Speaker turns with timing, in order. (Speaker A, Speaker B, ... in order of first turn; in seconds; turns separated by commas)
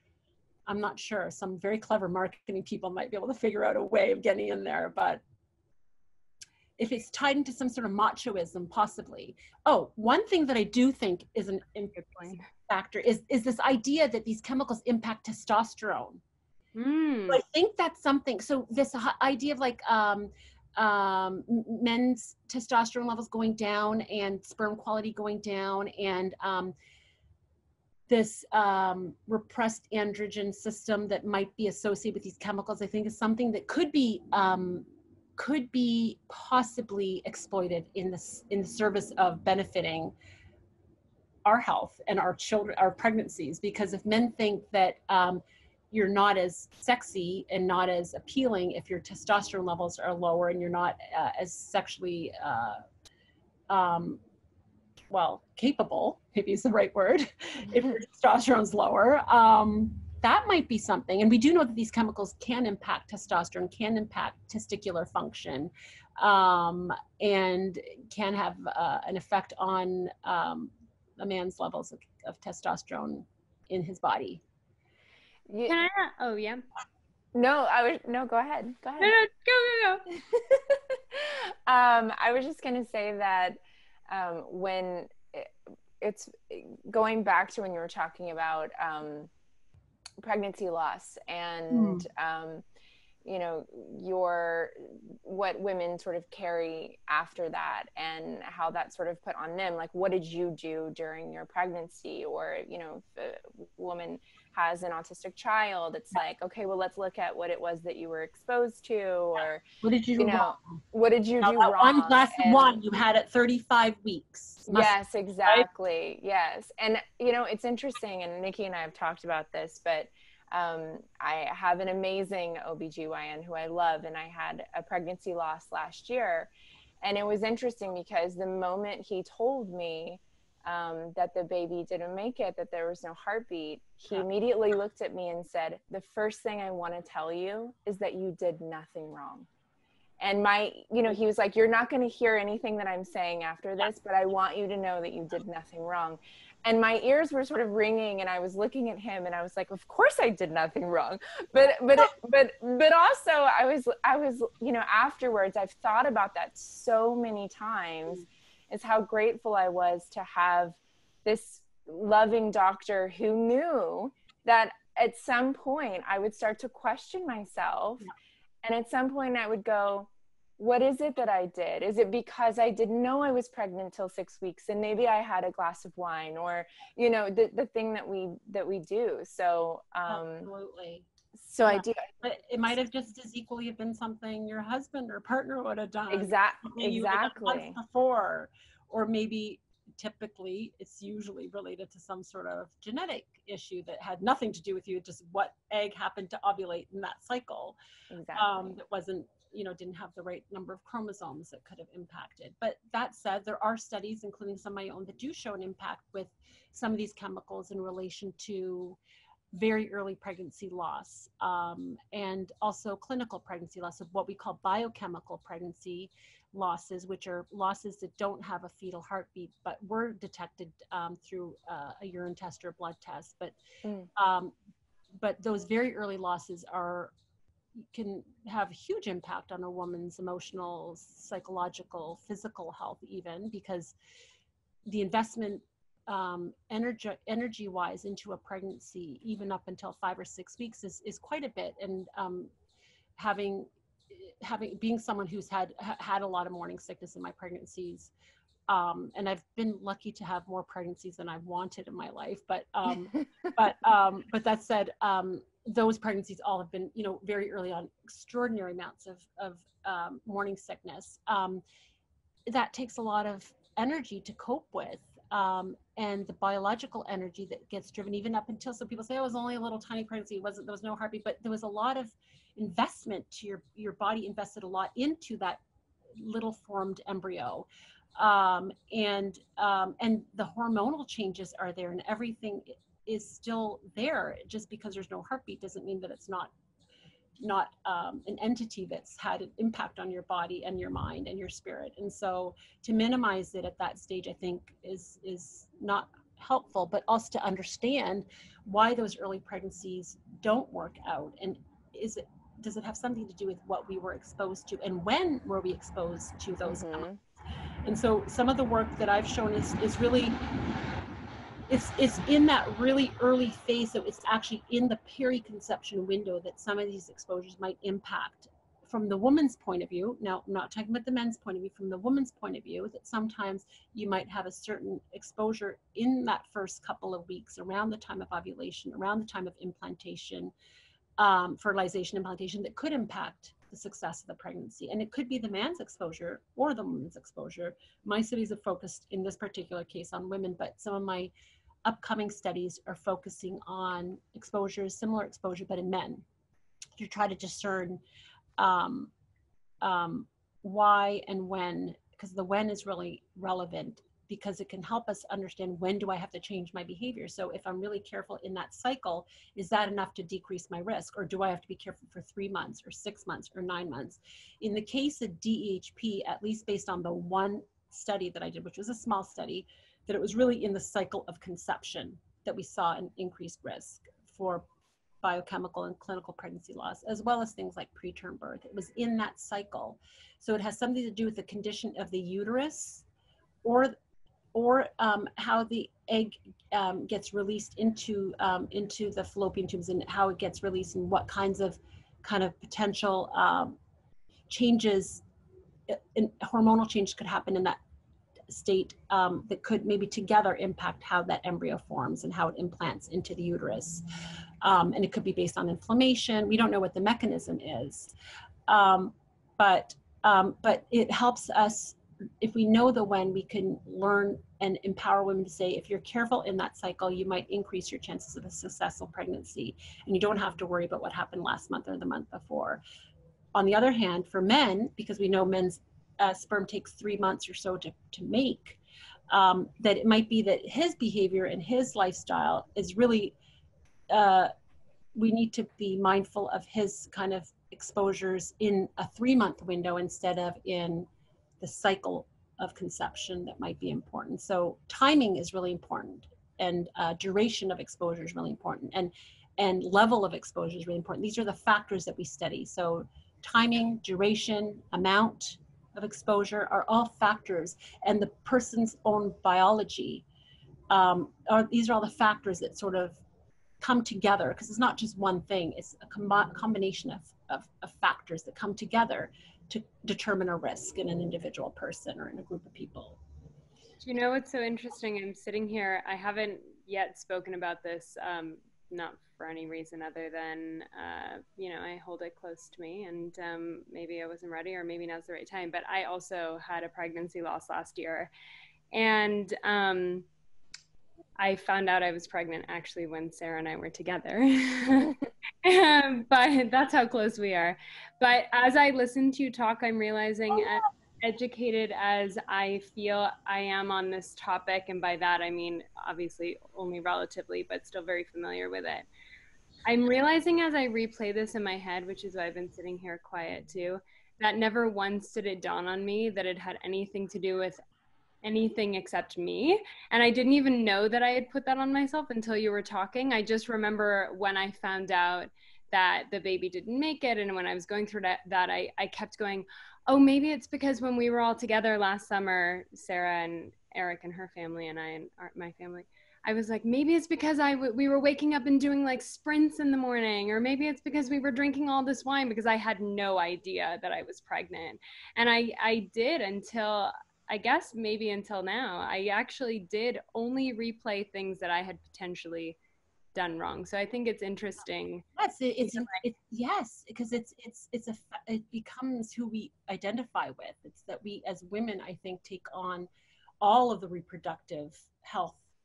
Speaker A: 0.7-5.2, Speaker A: 6.8-16.2, Speaker B: 16.8-17.4, Speaker A: 17.3-26.7, Speaker A: 28.1-34.9, Speaker A: 35.4-40.1, Speaker A: 41.5-52.8, Speaker A: 53.7-54.2, Speaker A: 55.1-74.4, Speaker C: 75.5-75.8, Speaker B: 75.7-76.6, Speaker C: 77.3-79.2, Speaker B: 79.0-80.0, Speaker C: 80.1-83.6, Speaker C: 84.1-89.3, Speaker C: 90.2-92.6, Speaker A: 91.7-92.1, Speaker C: 93.2-109.6, Speaker A: 109.8-110.6, Speaker C: 110.2-112.8, Speaker A: 111.4-115.7, Speaker C: 114.7-126.5, Speaker C: 127.0-139.5, Speaker C: 140.2-168.1, Speaker C: 168.7-180.5, Speaker A: 180.1-181.1, Speaker C: 181.4-182.1, Speaker A: 181.6-197.8, Speaker C: 186.1-187.8, Speaker C: 198.1-198.8, Speaker A: 198.3-209.0, Speaker A: 209.5-223.6, Speaker A: 224.2-224.5, Speaker A: 225.2-227.1, Speaker A: 227.8-233.9, Speaker A: 234.9-242.5, Speaker A: 243.2-248.1, Speaker A: 248.7-261.6, Speaker A: 262.5-275.6, Speaker A: 276.2-286.5, Speaker A: 287.4-307.1, Speaker C: 306.6-307.2, Speaker A: 307.9-310.4, Speaker A: 311.7-330.5, Speaker A: 331.2-341.3, Speaker A: 341.9-346.2, Speaker A: 347.0-348.0, Speaker A: 348.6-349.1, Speaker A: 349.8-374.6, Speaker A: 375.2-383.1, Speaker A: 383.6-384.0, Speaker A: 384.5-393.8, Speaker A: 394.5-395.2, Speaker A: 395.9-397.8, Speaker A: 398.5-404.1, Speaker A: 404.6-408.1, Speaker A: 408.7-422.8, Speaker A: 423.5-428.8, Speaker A: 429.3-433.3, Speaker A: 434.1-434.5, Speaker A: 435.2-441.1, Speaker A: 441.6-460.2, Speaker A: 460.9-463.2, Speaker A: 463.8-473.2, Speaker B: 474.0-488.3, Speaker B: 488.9-490.3, Speaker B: 491.4-509.1, Speaker B: 509.9-517.8, Speaker B: 518.4-552.8, Speaker B: 553.4-555.2, Speaker A: 555.4-563.1, Speaker A: 563.6-565.6